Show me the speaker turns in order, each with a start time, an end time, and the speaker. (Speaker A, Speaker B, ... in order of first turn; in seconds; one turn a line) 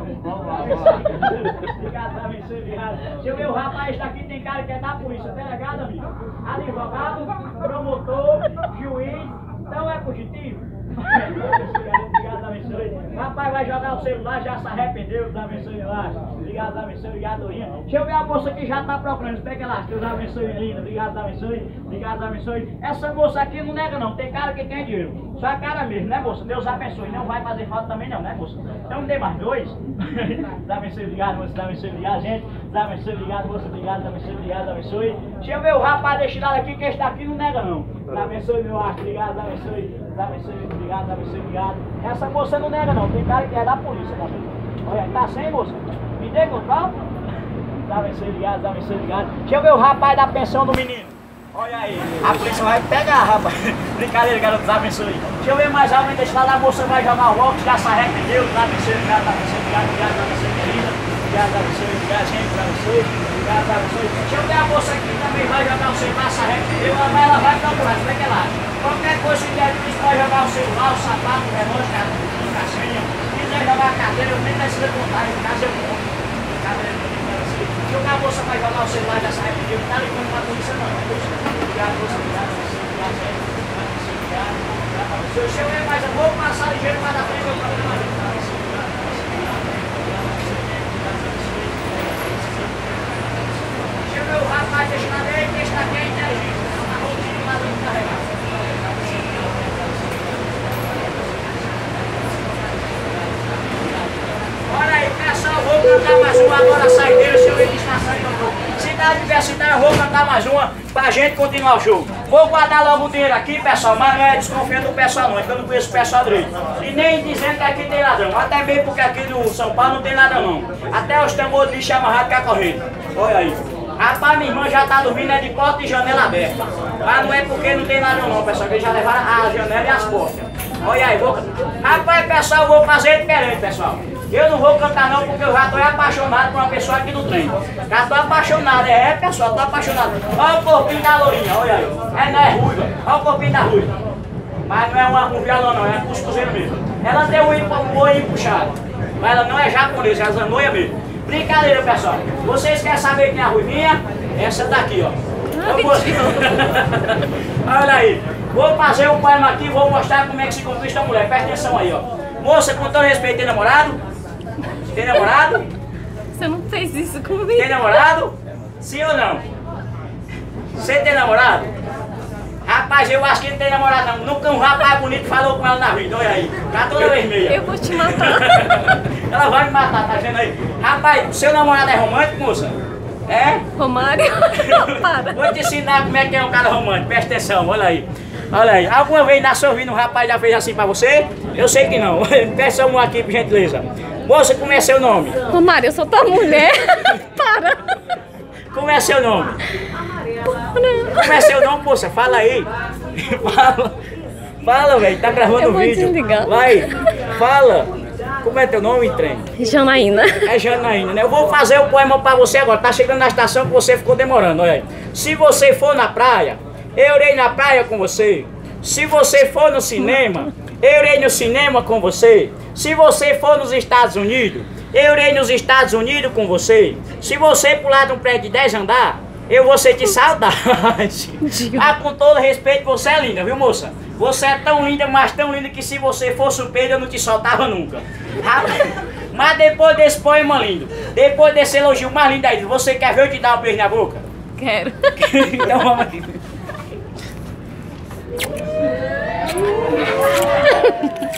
Speaker A: 0.2-46.9
Speaker A: 47.9-93.0
Speaker A: 93.8-98.3
Speaker A: 98.8-100.8
Speaker A: 103.1-143.9
Speaker A: 144.7-164.0
Speaker B: 155.6-156.7
Speaker A: 164.9-165.7
Speaker B: 166.3-167.9
Speaker A: 167.5-169.4
Speaker A: 170.7-171.7
Speaker A: 172.7-182.8
Speaker B: 177.5-178.9
Speaker A: 183.3-183.7
Speaker B: 183.8-185.6
Speaker A: 184.6-195.4
Speaker B: 195.5-197.8
Speaker A: 198.7-199.6
Speaker B: 200.5-201.6
Speaker A: 201.2-204.0
Speaker A: 204.6-207.9
Speaker B: 205.6-207.0
Speaker A: 208.4-209.5
Speaker B: 209.6-210.5
Speaker A: 210.4-244.2
Speaker B: 231.4-231.9
Speaker B: 244.6-245.8
Speaker A: 245.2-246.4